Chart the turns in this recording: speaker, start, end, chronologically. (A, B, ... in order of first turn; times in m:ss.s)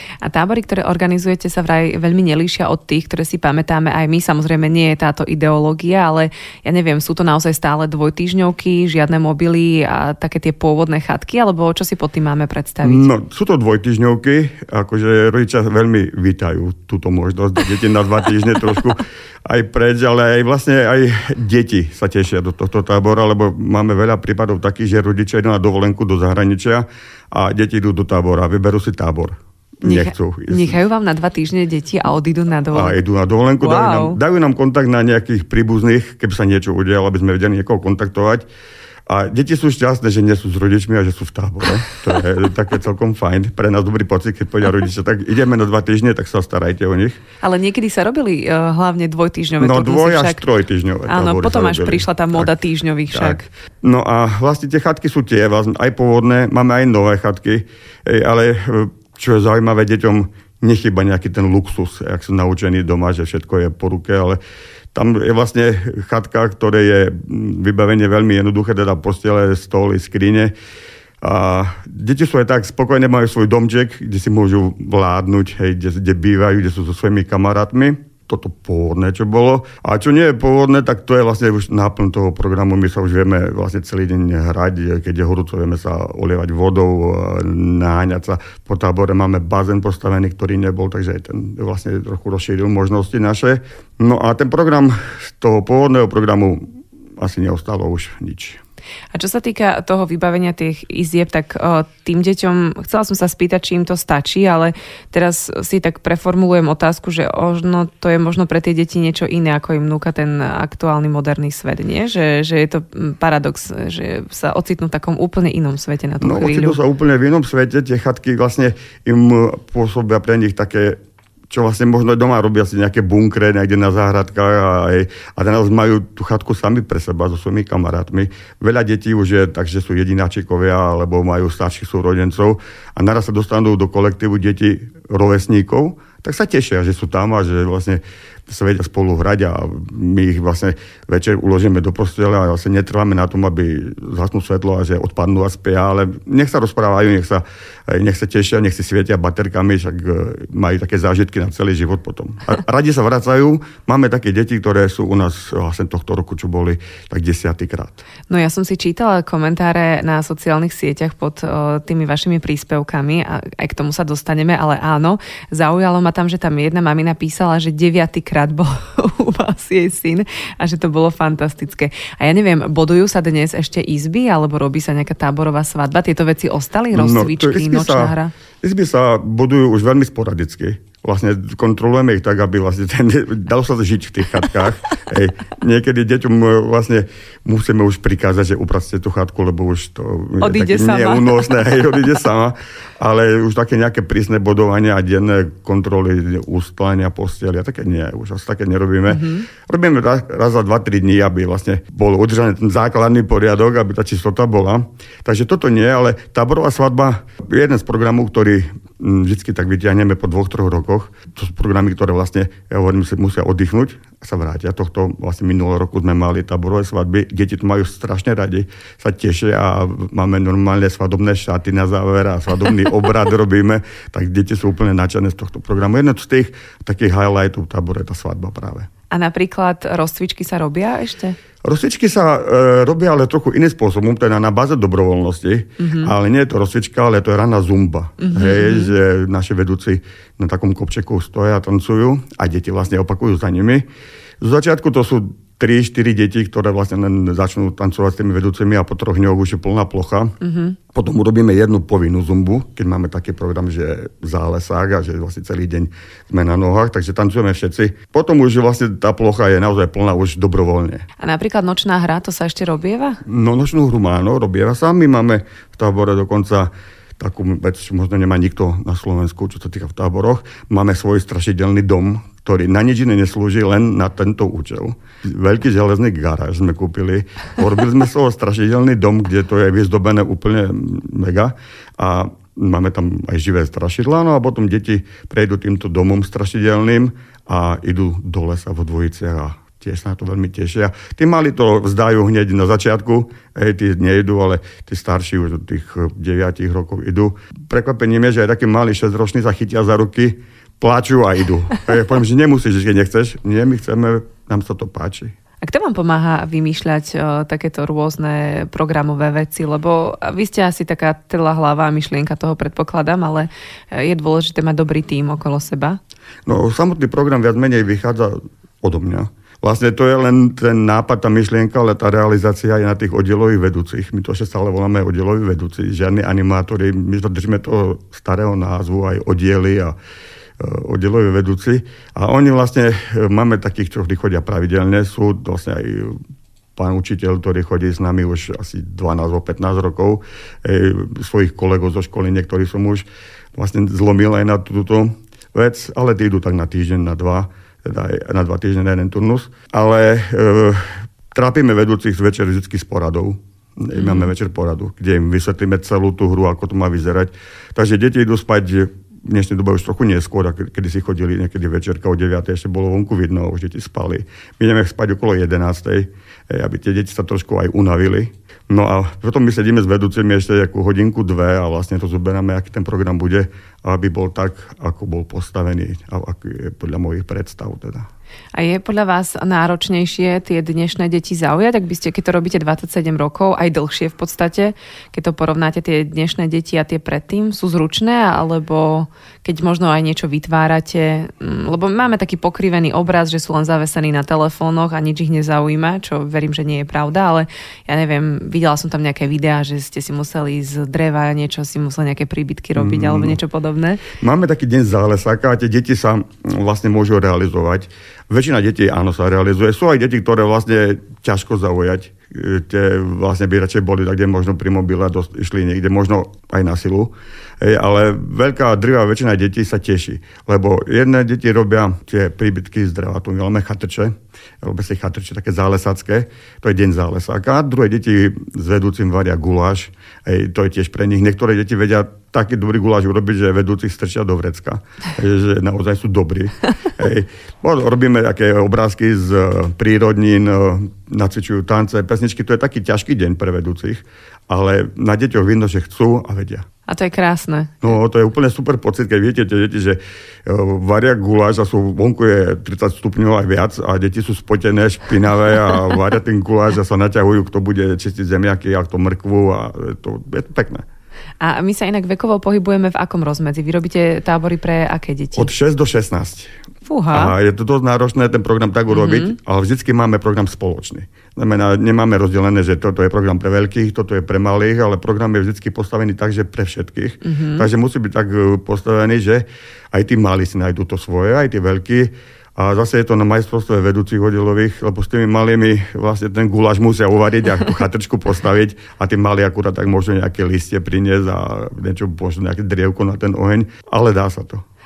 0:00.2-0:13.1 A
0:12.8-0:30.8 B
0:29.8-0:33.0 A
0:32.7-0:38.4 B
0:33.6-0:34.2 A
0:39.1-0:47.2 B
0:47.4-0:50.4 A
0:49.6-0:52.5 B
0:51.1-0:53.5 A
0:53.1-1:04.4 B
1:04.9-1:10.5 B
1:11.2-1:36.6 B
1:37.2-1:38.6 B
1:39.1-1:56.8 A
1:56.2-2:01.0 B
2:01.5-2:38.0 B
2:38.3-2:58.3 A
2:56.9-3:48.9 B
3:10.4-3:11.6 A
3:19.1-3:19.5 A
3:49.1-3:51.4 A
3:51.6-4:03.9 B
3:55.8-3:56.1 A
3:58.2-3:58.9 A
4:04.4-4:10.4 B
4:10.4-4:10.8 A
4:10.9-4:21.0 B
4:21.2-4:23.2 A
4:23.2-5:05.3 B
5:05.6-5:16.0 A
5:16.4-5:30.0 B
5:30.6-5:36.2 B
5:36.8-6:18.1 B
5:54.0-5:54.3 A
6:18.5-6:44.0 A
6:42.7-6:43.4 B
6:44.1-7:26.6 B
7:26.9-7:27.8 A
7:27.8-7:40.8 B
7:41.4-7:45.5 A
7:45.3-7:46.5 B
7:46.8-7:47.3 A
7:47.1-8:14.6 B
7:48.9-7:49.3 A
7:57.2-7:57.7 A